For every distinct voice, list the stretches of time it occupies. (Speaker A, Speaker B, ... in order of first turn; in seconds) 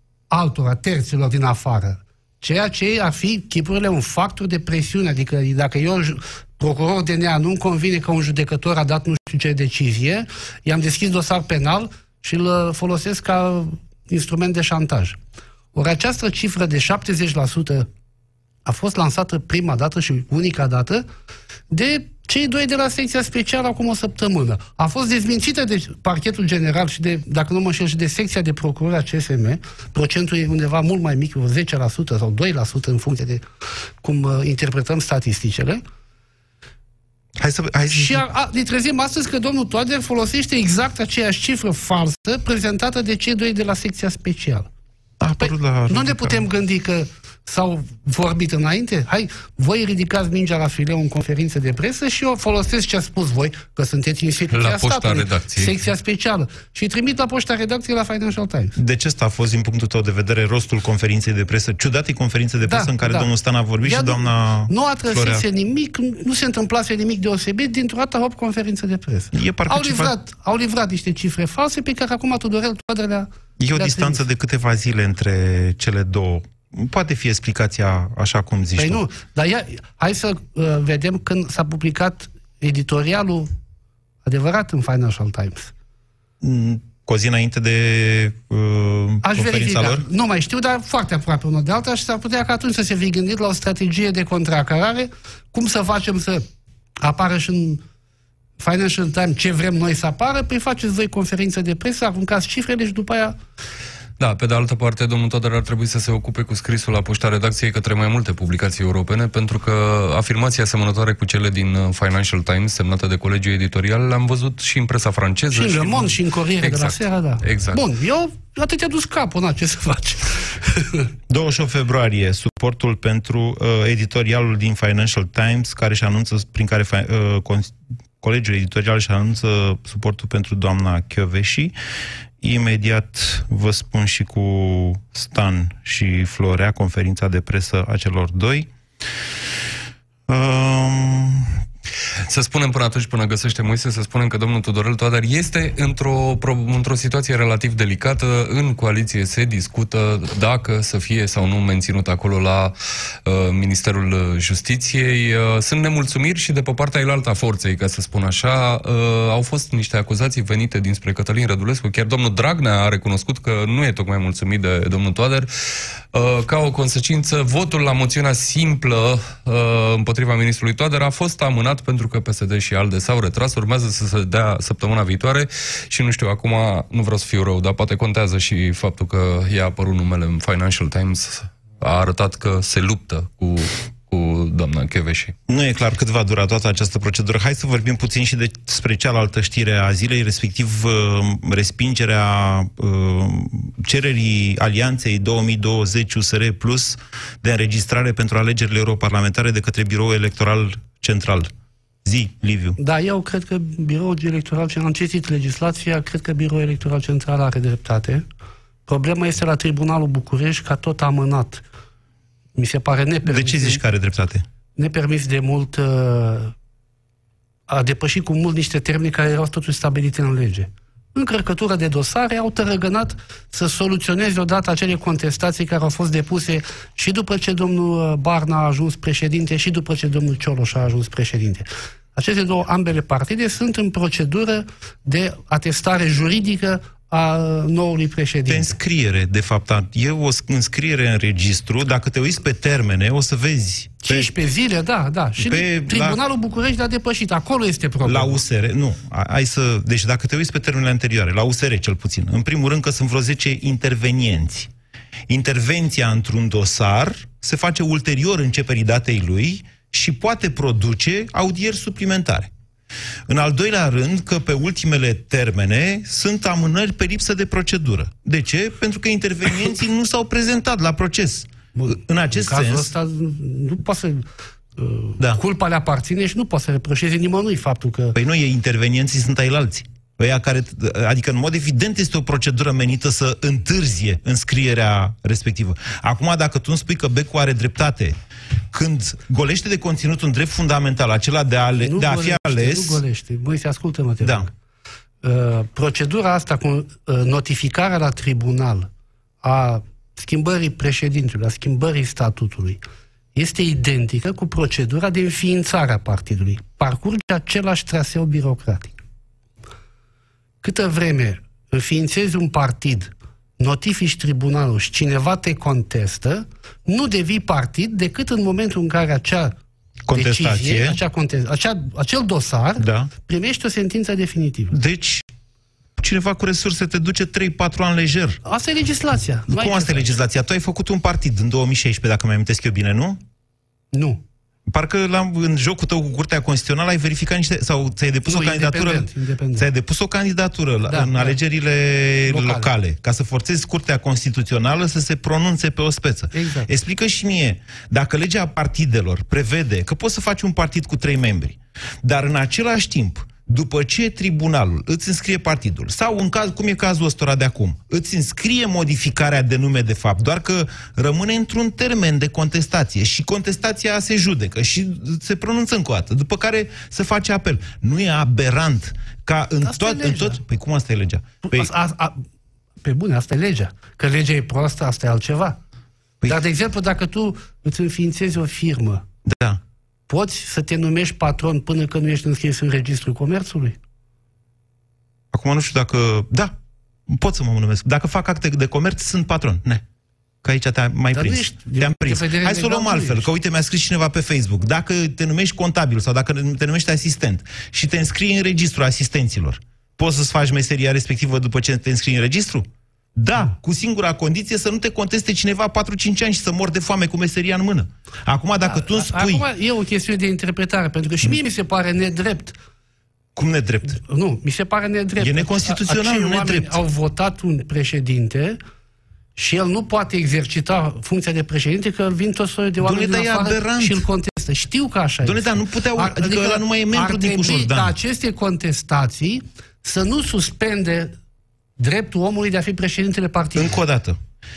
Speaker A: 0.3-15.2, 15.7-17.9, 18.6-21.1, 21.7-33.4, 34.0-35.8, 37.9-44.7, 45.4-58.8, 62.6-63.3, 63.8-74.2, 78.8-83.5, 84.2-85.7, 89.2-96.5, 97.0-97.8, 98.6-103.4, 115.5-121.1, 202.8-208.2, 208.9-211.6, 212.6-213.8, 214.8-216.5, 217.7-238.8, 244.0-248.4, 271.7-278.2, 291.8-294.5, 295.2-298.9, 299.4-302.8, 303.3-308.9, 310.6-319.6, 320.1-324.8, 328.4-330.1, 333.9-334.2, 338.2-339.7, 340.9-341.4, 342.3-342.7, 346.3-346.7, 369.6-370.4, 371.4-372.2, 372.8-375.6, 376.2-379.0, 380.1-383.8, 391.1-393.3, 408.6-412.6, 413.9-418.6, 419.4-431.1, 431.8-433.8
Speaker B: 37.4-38.2, 45.2-46.5, 58.8-65.4, 69.3-70.1, 73.6-79.0, 86.4-90.0, 121.3-131.7, 132.4-138.7, 140.3-141.5, 185.5-201.5, 202.0-202.8, 213.2-214.4, 238.5-244.3, 245.4-246.2, 248.0-254.7, 255.3-262.5, 263.3-272.9, 278.1-288.1, 288.7-293.0, 294.2-294.5, 320.1-321.0, 322.8-323.1, 324.7-325.2, 326.0-328.4, 329.5-333.2, 334.7-371.7, 379.2-379.6, 385.3-386.5, 387.1-389.8, 390.4-409.5, 413.4-414.0, 415.2-416.8, 422.8-424.1, 425.2-427.9, 433.5-434.2
Speaker C: 54.5-55.8, 104.2-117.8, 142.3-152.7, 153.2-165.5, 166.1-185.3